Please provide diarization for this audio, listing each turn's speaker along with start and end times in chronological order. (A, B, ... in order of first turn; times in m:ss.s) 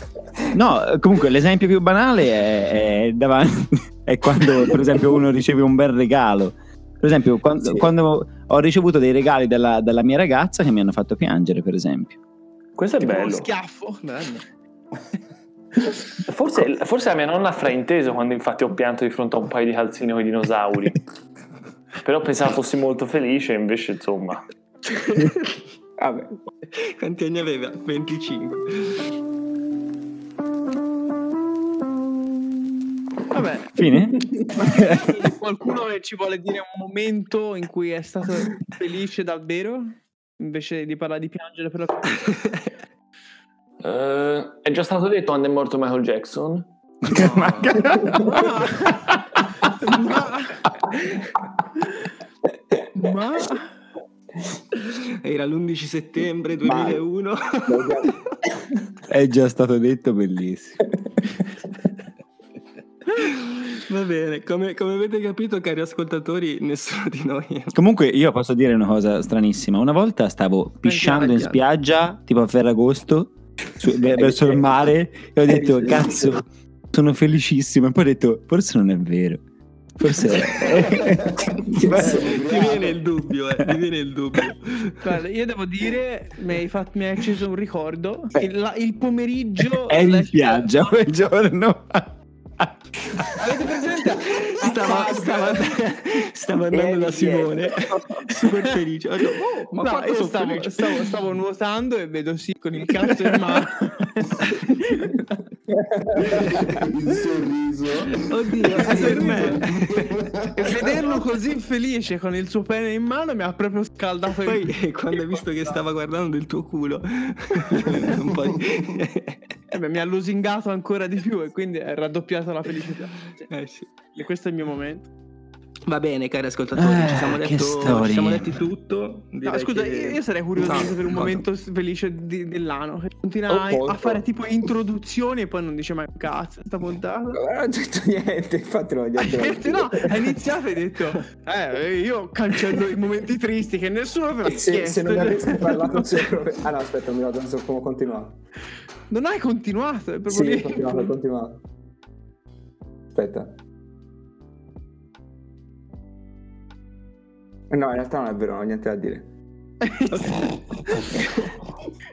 0:00.5-0:12.2 A
0:07.6-0:07.9 B
0:12.8-0:13.5 C
0:13.0-0:14.2 D
0:14.0-0:14.4 E
0:16.3-0:21.0 C
0:22.0-0:24.4 C
0:25.1-0:25.5 E
0:26.0-0:26.3 B
0:26.7-0:29.0 E
0:33.3-0:33.8 D
0:33.7-0:35.1 A
0:34.5-0:42.3 D
0:42.3-0:42.6 E
0:43.8-0:46.7 C
0:47.0-0:48.9 A
0:47.1-0:48.0 E
0:48.2-0:49.1 D
0:49.7-0:51.0 D
0:52.9-0:53.7 D
0:55.2-0:58.3 E
0:56.6-0:57.0 B
0:57.6-0:58.2 B
0:59.1-1:00.8 A
1:03.2-1:07.8 E
1:07.7-1:19.4 A
1:10.8-1:11.6 E
1:14.1-1:14.8 B
1:15.4-1:16.4 B
1:20.0-1:22.2 A
1:20.6-1:23.0 F
1:21.7-1:22.6 B
1:22.2-1:25.1 E
1:25.0-1:31.0 D
1:29.8-1:32.7 A
1:33.3-1:35.8 D
1:34.3-1:41.1 E
1:36.7-1:38.2 B
1:38.4-1:38.7 D
1:39.8-1:45.1 D
1:46.2-1:46.6 B
1:46.6-1:50.7 F
1:48.3-1:50.2 E
1:48.8-1:49.6 D
1:48.8-1:49.5 B
1:50.6-1:55.7 D
1:54.4-1:59.4 E
1:59.7-2:03.5 D
2:03.4-2:03.9 E
2:04.1-2:05.1 D
2:05.9-2:11.4 E
2:06.7-2:08.6 A
2:09.4-2:17.4 D
2:13.5-2:14.2 B
2:17.3-2:20.4 B
2:19.2-2:26.1 D
2:24.4-2:28.4 B
2:29.1-2:31.1 D
2:30.3-2:31.6 B
2:33.1-2:33.6 B
2:37.7-2:39.3 B
2:39.9-2:40.4 D
2:40.1-2:40.6 E
2:41.2-2:41.5 E